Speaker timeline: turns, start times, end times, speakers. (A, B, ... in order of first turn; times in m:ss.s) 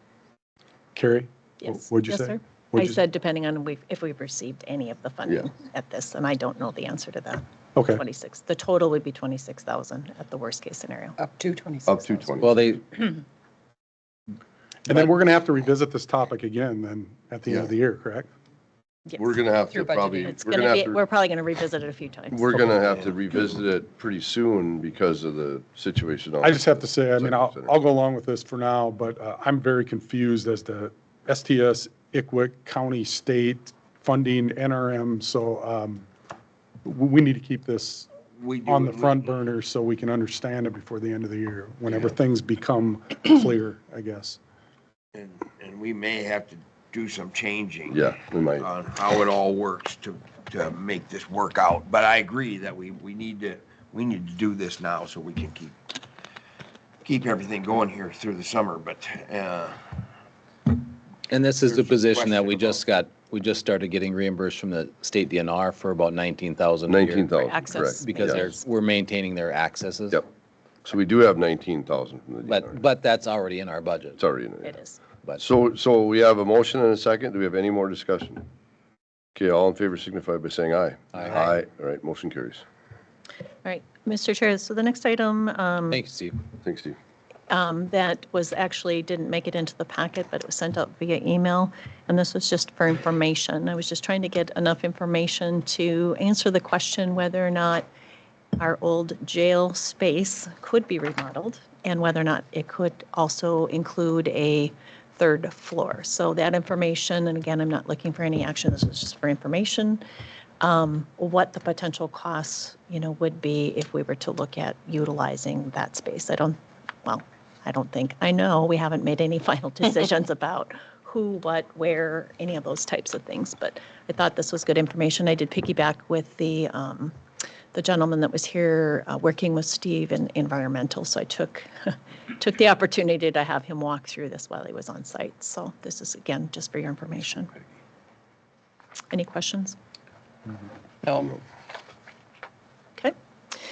0:00.9-0:03.0 A
0:01.6-0:11.2 B
0:07.8-0:08.0 A
0:11.2-0:12.3 C
0:11.9-0:12.7 D
0:12.4-0:12.8 E
0:14.9-0:18.3 A
0:19.2-0:21.0 D
0:19.7-0:20.4 C
0:20.3-0:22.5 B
0:22.3-0:27.7 D
0:26.4-0:36.0 A
0:36.8-0:38.1 A
0:38.3-0:39.3 F
0:38.6-0:44.4 A
0:45.1-0:56.0 F
0:47.9-0:48.7 D
0:57.0-1:00.0 F
1:01.3-1:07.3 E
1:01.6-1:02.8 F
1:06.9-1:08.4 D
1:07.3-1:08.6 B
1:08.0-1:10.2 E
1:10.8-1:12.8 D
1:12.4-1:14.2 E
1:14.2-1:14.8 D
1:14.6-1:15.0 B
1:15.4-1:18.4 D
1:19.4-1:22.6 D
1:21.1-1:21.5 E
1:23.6-1:26.0 B
1:25.9-1:26.4 E
1:26.6-1:27.0 D
1:27.5-1:37.9 B
1:38.6-1:50.0 B
1:50.6-2:07.1 B
2:07.7-2:17.5 B
2:19.1-2:19.8 B
2:21.0-2:21.4 C